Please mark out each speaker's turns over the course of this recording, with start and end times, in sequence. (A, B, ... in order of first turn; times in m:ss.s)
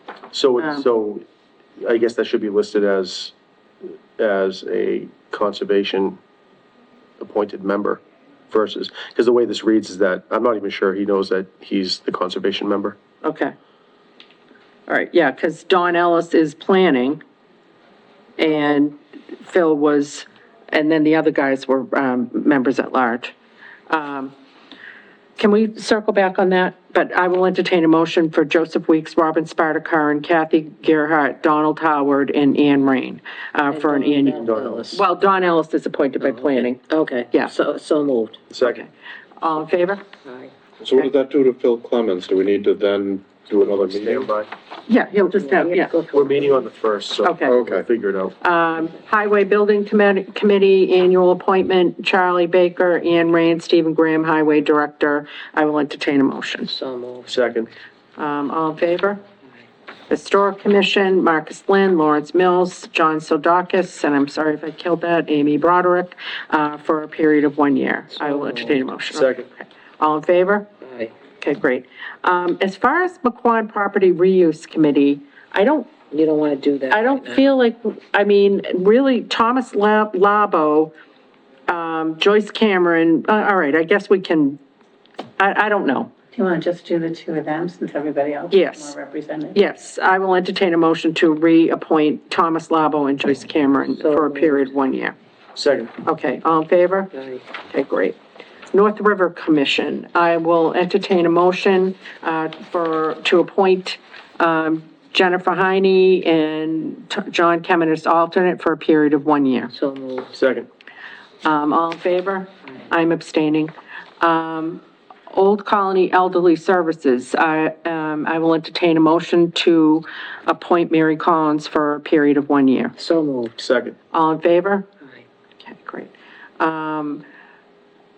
0:00.3-0:01.2 A
0:00.6-0:00.9 B
0:01.8-0:03.3 A
0:04.2-0:06.2 A
0:07.2-0:13.0 A
0:13.2-0:13.5 B
0:14.9-0:17.2 B
0:18.4-0:23.3 B
0:23.9-0:24.3 B
0:25.4-0:36.8 B
0:33.7-0:34.9 C
0:34.3-0:35.0 A
0:36.2-0:38.4 C
0:38.5-0:38.8 A
0:38.6-0:38.9 B
0:39.4-0:40.0 B
0:40.3-0:40.5 C
0:40.8-0:44.3 D
0:43.6-0:44.5 A
0:44.9-0:45.9 B
0:45.4-0:46.5 C
0:46.1-0:48.4 A
0:47.2-0:47.6 B
0:47.5-0:47.8 D
0:48.4-0:56.7 B
0:56.7-0:57.4 C
0:57.3-0:57.7 A
0:58.2-0:59.2 B
1:00.1-1:10.7 B
1:08.2-1:08.8 C
1:09.1-1:09.5 A
1:10.8-1:11.1 C
1:11.4-1:15.9 B
1:16.1-1:17.5 C
1:16.9-1:20.9 B
1:21.7-1:24.6 B
1:25.4-1:26.1 B
1:26.3-1:29.6 E
1:28.5-1:28.9 B
1:29.5-1:35.2 B
1:34.0-1:34.6 C
1:35.6-1:35.9 A
1:36.0-1:38.2 B
1:38.7-1:49.7 B
1:49.7-1:50.3 C
1:50.3-1:50.7 A
1:51.4-2:03.0 B
2:03.0-2:03.6 C
2:03.6-2:04.0 A
2:04.1-2:04.9 B
2:05.6-2:07.2 B